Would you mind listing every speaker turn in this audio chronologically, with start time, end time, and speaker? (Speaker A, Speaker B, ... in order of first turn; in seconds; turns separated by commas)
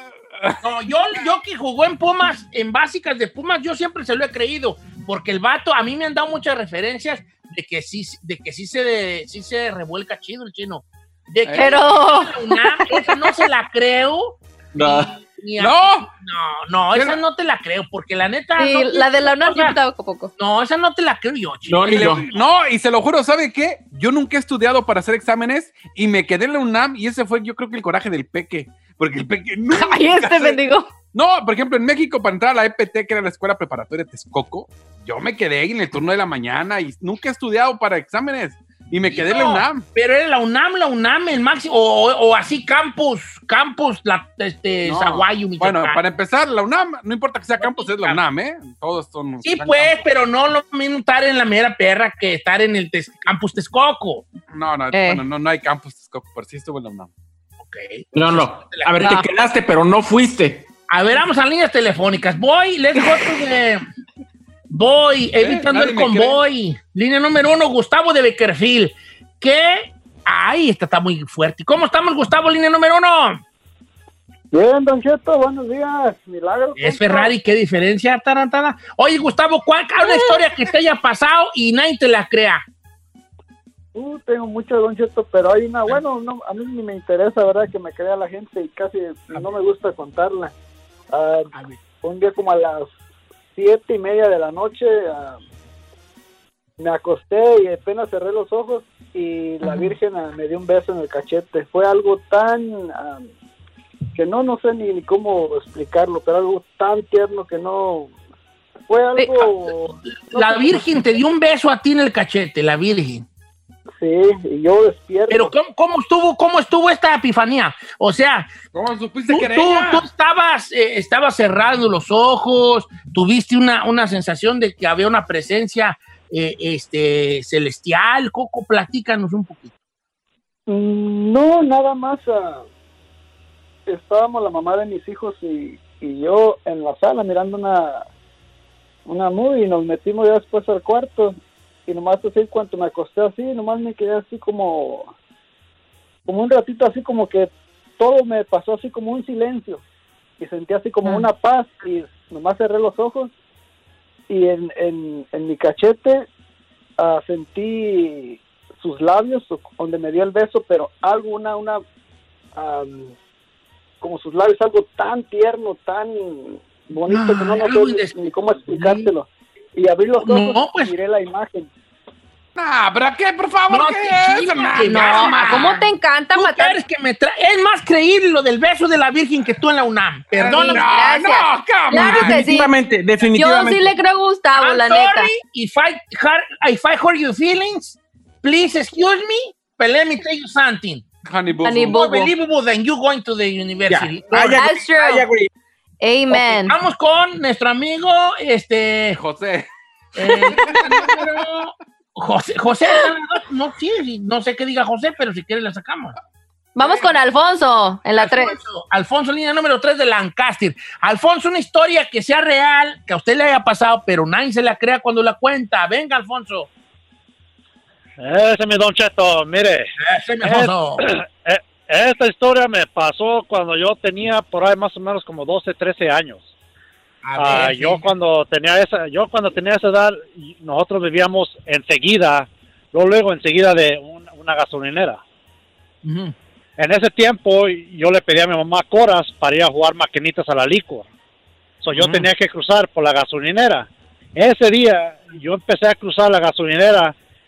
Speaker A: 0.6-19.8, Speaker B: 11.6-13.1, Speaker C: 14.7-15.1, Speaker D: 15.6-16.1, Speaker B: 18.6-20.3, Speaker A: 20.4-22.3, Speaker C: 21.7-22.2, Speaker D: 21.8-30.6, Speaker B: 29.7-30.9, Speaker D: 31.1-39.8, Speaker A: 39.1-46.0, Speaker D: 44.8-50.0, Speaker A: 47.6-48.2, Speaker A: 49.4-54.3, Speaker D: 54.5-57.1, Speaker B: 54.9-55.2, Speaker A: 57.6-59.0, Speaker C: 58.1-60.7, Speaker B: 59.0-59.3, Speaker A: 60.9-63.8, Speaker A: 64.7-73.4, Speaker D: 65.4-66.4, Speaker E: 74.5-77.3, Speaker A: 76.8-82.6, Speaker E: 83.9-90.5, Speaker E: 91.1-92.9, Speaker A: 91.5-91.8, Speaker E: 93.5-95.4, Speaker E: 96.8-103.3, Speaker B: 99.6-99.9, Speaker E: 104.1-108.1, Speaker E: 108.9-110.8, Speaker B: 109.2-109.4, Speaker A: 110.1-113.2, Speaker E: 114.0-115.5, Speaker A: 115.3-118.5, Speaker D: 118.7-120.0, Speaker A: 119.3-129.7, Speaker E: 130.7-132.6, Speaker E: 133.9-138.0, Speaker E: 139.1-145.1, Speaker E: 146.2-149.8, Speaker E: 150.4-153.3, Speaker E: 154.3-156.3, Speaker E: 157.0-161.8, Speaker E: 162.5-163.1, Speaker E: 164.0-171.7, Speaker A: 167.1-169.1, Speaker A: 170.2-170.9, Speaker D: 172.6-175.8, Speaker A: 173.7-180.8, Speaker B: 174.8-176.8, Speaker D: 180.3-182.4, Speaker B: 180.5-182.7, Speaker C: 182.0-183.9, Speaker B: 183.3-185.3, Speaker A: 184.6-191.0, Speaker D: 191.2-192.0, Speaker B: 191.6-192.3, Speaker A: 191.9-194.6, Speaker C: 193.9-195.5, Speaker B: 194.5-195.2, Speaker B: 196.0-196.8, Speaker A: 196.3-199.2, Speaker D: 199.2-199.7, Speaker A: 200.1-206.1, Speaker D: 200.3-201.2, Speaker B: 206.8-208.6, Speaker D: 206.8-207.1, Speaker A: 208.2-216.7, Speaker F: 218.2-219.9, Speaker A: 220.0-221.0, Speaker F: 220.4-226.5, Speaker A: 227.2-228.1, Speaker F: 227.3-235.2, Speaker A: 236.0-236.3, Speaker F: 236.8-241.1, Speaker F: 241.8-247.1, Speaker A: 241.9-242.3